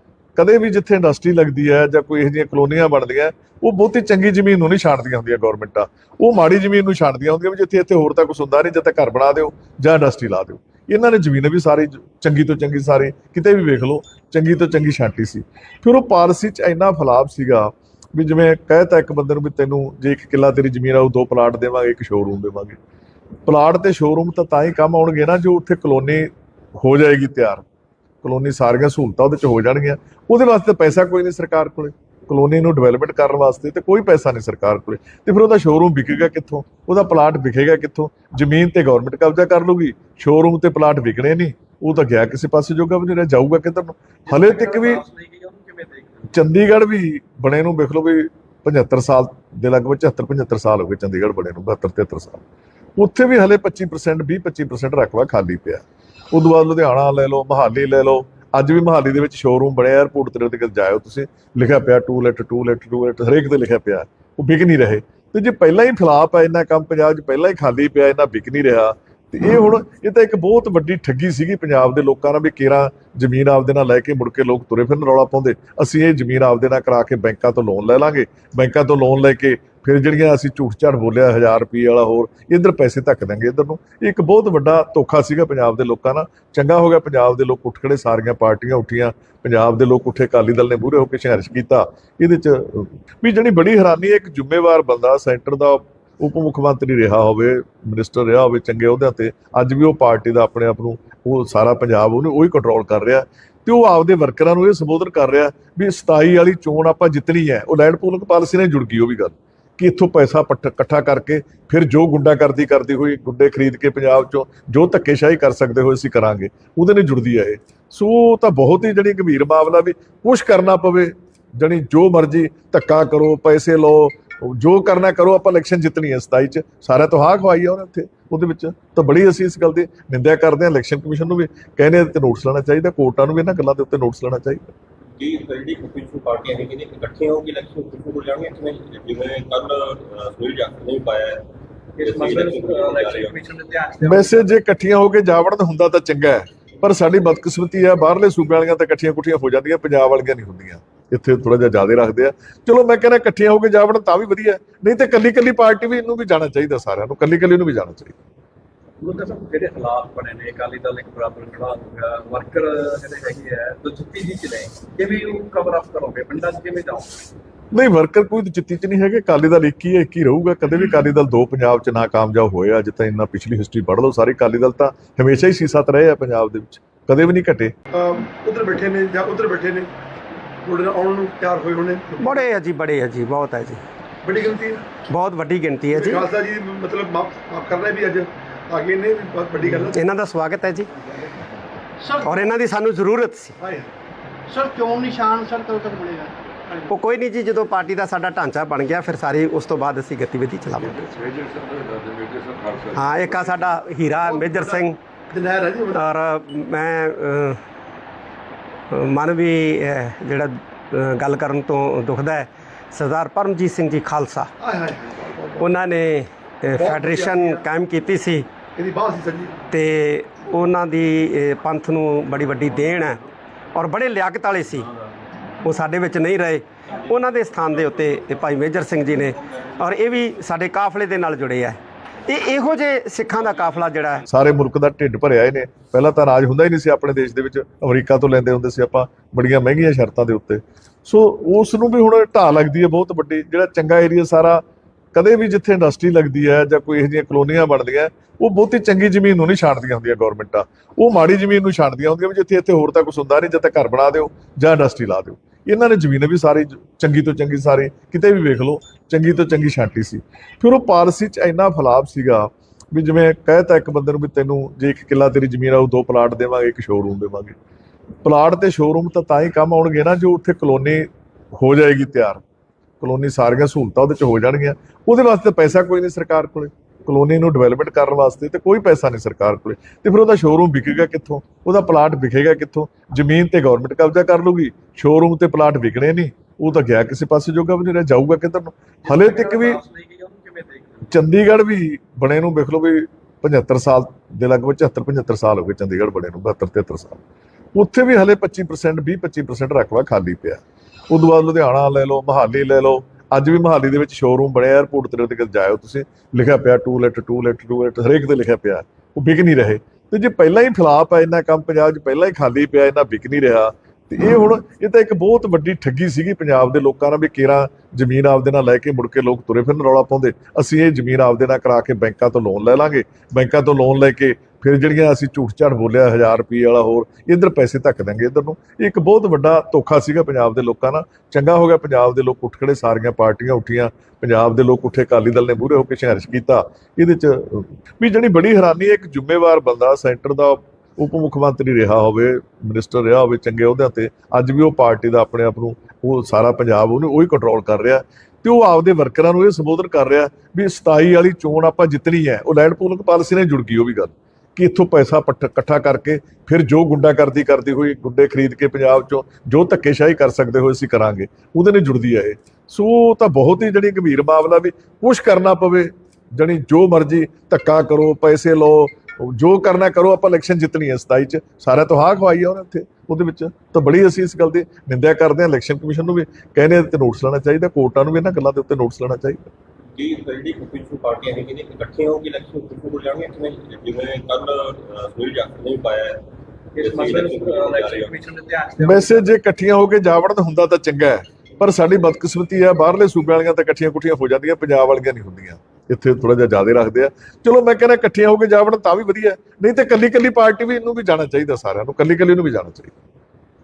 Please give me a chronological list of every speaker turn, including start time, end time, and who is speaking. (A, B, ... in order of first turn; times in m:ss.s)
0:00.4-0:22.8 A
0:23.5-0:27.6 A
0:28.2-0:45.0 A
0:44.3-0:46.4 B
0:46.3-0:52.4 A
0:53.0-2:14.7 A
2:15.2-2:21.4 C
2:22.0-2:24.5 B
2:22.0-2:23.4 C
2:24.1-2:38.2 A
2:39.0-2:47.1 B
2:47.7-2:57.7 A
2:57.9-2:59.9 D
3:00.6-3:02.4 D
3:02.2-3:03.8 E
3:04.2-3:04.8 D
3:05.1-3:06.3 E
3:05.9-3:10.0 D
3:09.9-3:10.9 E
3:12.0-3:12.3 F
3:12.2-3:13.5 E
3:13.6-3:13.9 D
3:14.5-3:16.9 F
3:16.9-3:21.0 E
3:20.8-3:23.9 G
3:23.0-3:25.0 E
3:25.3-3:26.0 D
3:25.9-3:27.6 E
3:28.9-3:34.5 E
3:34.6-3:35.6 D
3:35.6-3:38.5 E
3:36.8-3:37.6 D
3:38.8-3:39.6 D
3:39.7-3:43.2 E
3:43.8-3:44.9 E
3:45.6-3:54.2 E
3:54.3-4:04.6 A
4:05.1-4:27.6 A
4:28.2-4:32.4 A
4:33.0-4:49.8 A
4:49.0-4:51.2 B
4:51.1-4:57.2 A
4:57.8-6:19.5 A
6:20.0-6:26.2 C
6:26.8-6:29.3 B
6:26.8-6:28.2 C
6:28.8-6:42.9 A